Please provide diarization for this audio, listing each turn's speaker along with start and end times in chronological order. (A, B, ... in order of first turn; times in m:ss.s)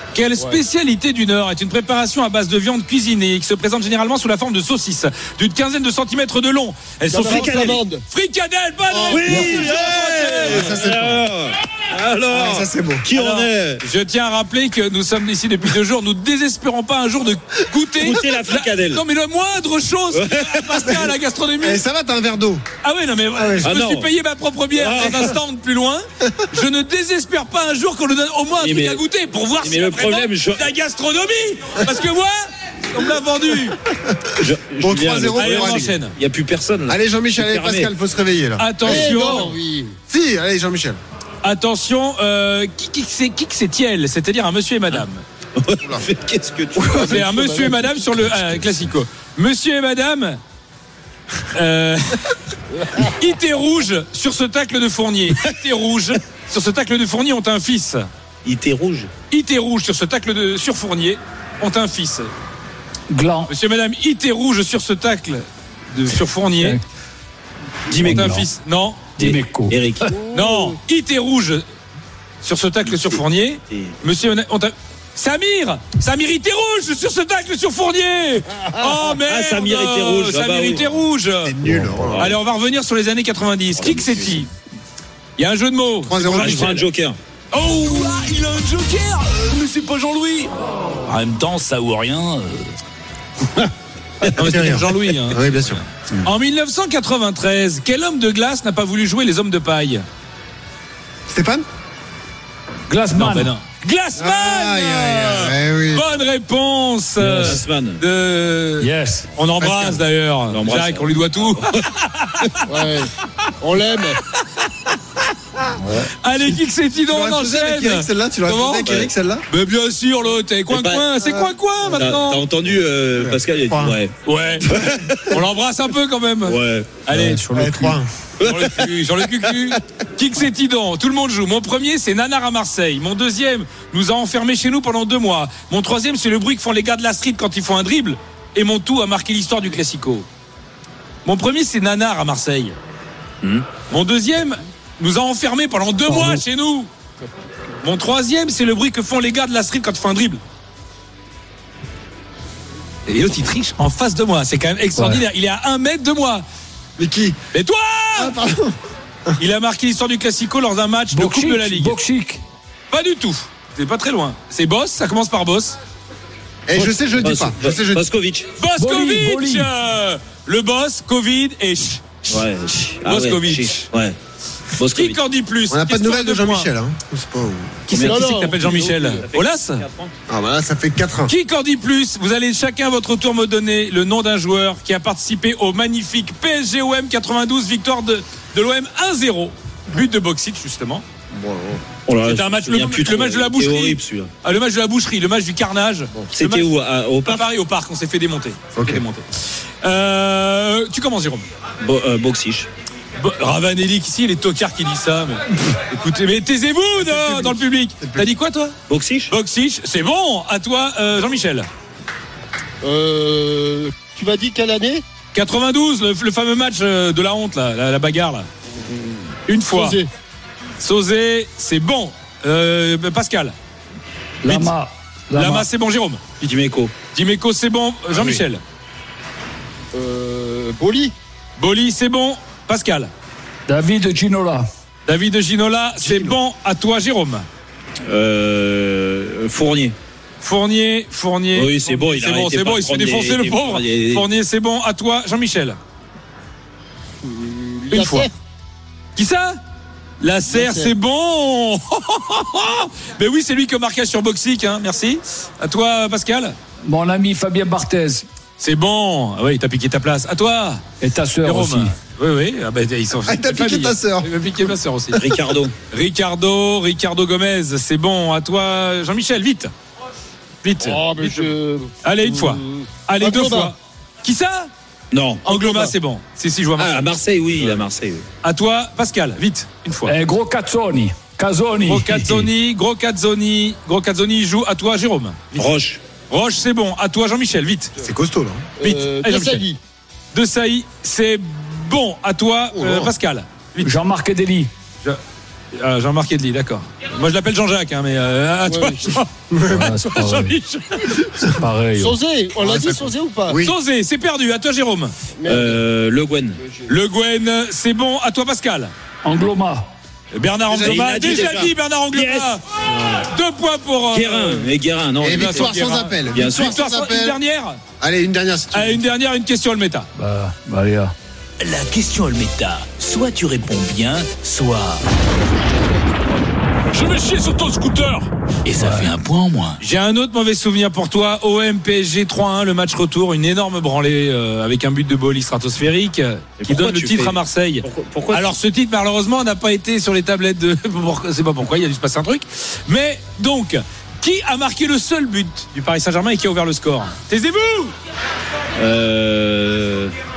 0:00.1-0:10.9 A
0:07.1-0:08.0 B
0:09.0-0:13.8 C
0:09.2-0:09.6 D
0:09.4-0:09.7 E
0:10.4-0:11.2 E
0:12.3-0:13.0 E
0:13.1-0:21.8 A
0:18.0-0:19.0 C
0:20.1-0:20.7 C
0:21.6-0:22.6 E
0:22.8-0:32.4 A
0:23.3-0:23.7 E
0:23.6-0:24.1 C
0:24.7-0:25.3 C
0:28.6-0:29.0 C
0:29.6-0:30.6 C
0:32.9-0:33.8 A
0:34.4-0:35.6 C
0:34.8-0:36.0 E
0:35.3-0:36.1 A
0:36.2-0:37.9 C
0:36.9-0:39.5 E
0:38.6-0:39.5 A
0:38.8-0:40.0 B
0:40.0-0:41.0 E
0:41.4-0:45.2 A
0:45.6-0:47.2 C
0:46.9-0:48.6 B
0:47.0-0:50.4 A
0:51.5-0:52.3 A
0:53.0-0:58.0 A
0:58.4-0:59.1 C
0:59.3-1:02.3 A
1:03.1-1:03.5 D
1:03.5-1:06.8 A
1:06.6-1:06.8 D
1:07.9-1:09.2 A
1:08.0-1:08.5 D
1:09.2-1:09.8 D
1:09.2-1:10.0 C
1:10.0-1:10.8 B
1:10.3-1:11.6 A
1:12.4-1:21.6 A
1:12.9-1:13.9 C
1:18.8-1:19.0 B
1:19.2-1:20.8 C
1:21.4-1:22.4 E
1:22.0-1:22.4 C
1:22.2-1:24.5 A
1:23.7-1:24.5 C
1:25.4-1:26.9 A
1:26.0-1:26.8 E
1:26.4-1:27.2 C
1:27.5-1:30.5 A
1:31.0-1:32.7 F
1:34.4-1:40.0 A
1:34.4-1:35.8 E
1:41.3-1:41.6 E
1:42.9-1:43.5 D
1:43.2-1:52.8 A
1:44.2-1:46.0 E
1:47.2-1:47.6 D
1:47.4-1:48.0 C
1:48.8-1:49.3 D
1:49.6-1:50.0 E
1:50.5-1:51.8 C
1:52.7-1:54.2 B
1:56.2-2:02.4 A
1:56.4-1:59.4 E
2:00.7-2:01.1 C
2:01.2-2:01.5 E
2:02.0-2:04.2 C
2:03.2-2:04.0 E
2:04.2-2:20.2 A
2:06.4-2:07.0 C
2:07.1-2:07.6 D
2:07.2-2:08.1 E
2:08.4-2:09.4 C
2:21.2-2:22.7 A
2:23.4-2:23.7 C
2:23.9-2:26.9 A
2:26.1-2:26.4 D
2:27.8-2:30.4 A
2:33.1-2:36.4 A
2:35.0-2:35.2 D
2:37.0-2:37.4 E
2:37.5-2:38.3 A
2:38.2-2:38.7 E
2:39.4-2:42.0 A
2:41.1-2:42.4 D
2:42.9-2:45.8 A
2:46.7-2:48.0 E
2:46.7-2:47.0 B
2:47.2-2:48.5 C
2:48.6-2:52.4 A
2:48.8-2:49.7 D
2:52.3-2:54.2 C
2:53.0-2:53.9 A
2:54.8-2:55.2 C
2:54.8-2:56.7 A
2:55.7-2:57.9 E
2:57.9-2:59.8 A
2:57.9-2:58.2 C
2:58.0-2:59.1 B
2:58.8-3:00.1 C
3:00.3-3:01.3 E
3:01.3-3:11.0 A
3:11.4-3:11.8 E
3:12.0-3:14.3 C
3:12.2-3:16.7 A
3:16.3-3:17.5 C
3:17.2-3:19.2 A
3:18.7-3:19.0 E
3:19.8-3:21.4 A
3:21.8-3:22.7 C
3:23.2-3:28.7 A
3:27.0-3:28.3 E
3:28.9-3:29.3 C
3:29.3-3:31.6 A
3:32.8-3:35.0 B
3:35.3-3:38.5 A
3:39.5-3:40.0 A
3:39.7-3:40.1 B
3:40.8-3:43.5 A
3:44.4-3:45.6 D
3:44.4-3:44.7 A
3:45.3-3:46.3 A
3:46.4-3:47.0 C
3:47.1-3:48.6 A
3:48.1-3:48.4 E
3:49.9-3:51.1 B
3:51.6-3:53.1 A
3:53.7-3:54.6 D
3:55.1-3:57.4 A
3:56.0-3:56.3 E
3:58.0-3:59.9 C
4:00.4-4:05.8 A
4:01.5-4:04.2 C
4:07.2-4:08.3 B
4:07.9-4:08.3 A
4:09.2-4:09.6 A
4:10.2-4:16.5 A
4:10.5-4:10.9 B
4:16.8-4:18.2 D
4:18.6-4:20.8 A
4:21.0-4:21.9 D
4:21.4-4:25.2 A
4:23.2-4:24.3 E
4:25.2-4:25.8 C
4:25.9-4:29.7 A
4:30.6-4:34.7 A
4:30.8-4:33.7 B
4:35.1-4:36.0 C
4:35.4-4:37.8 A
4:36.8-4:38.3 C
4:38.4-4:40.1 A
4:40.0-4:42.5 D
4:41.8-4:45.7 A
4:45.6-4:46.0 C
4:46.3-4:47.9 A
4:48.0-4:48.7 E
4:48.8-4:49.8 B
4:48.8-4:49.6 A
4:50.3-4:53.9 A
4:52.7-4:53.1 E
4:53.8-4:54.7 D
4:55.8-5:01.2 A
4:58.6-4:59.2 B
4:59.5-5:00.0 E
4:59.7-5:00.5 D
5:01.4-5:02.2 D
5:02.0-5:03.6 B
5:02.6-5:03.7 E
5:03.6-5:05.1 A
5:05.4-5:05.8 B
5:05.4-5:06.6 C
5:06.9-5:08.9 A
5:09.2-5:09.9 D
5:10.3-5:12.6 A
5:10.8-5:12.6 C
5:13.3-5:14.7 A
5:14.1-5:15.7 C
5:15.2-5:17.4 E
5:15.2-5:17.8 A
5:16.3-5:16.6 C
5:18.0-5:19.0 E
5:18.7-5:20.1 A
5:20.1-5:21.1 D
5:21.6-5:25.0 F
5:27.4-5:28.0 D
5:28.6-5:29.8 F
5:28.7-5:29.1 D
5:29.8-5:47.9 A
5:36.6-5:38.4 C
5:48.8-5:50.1 C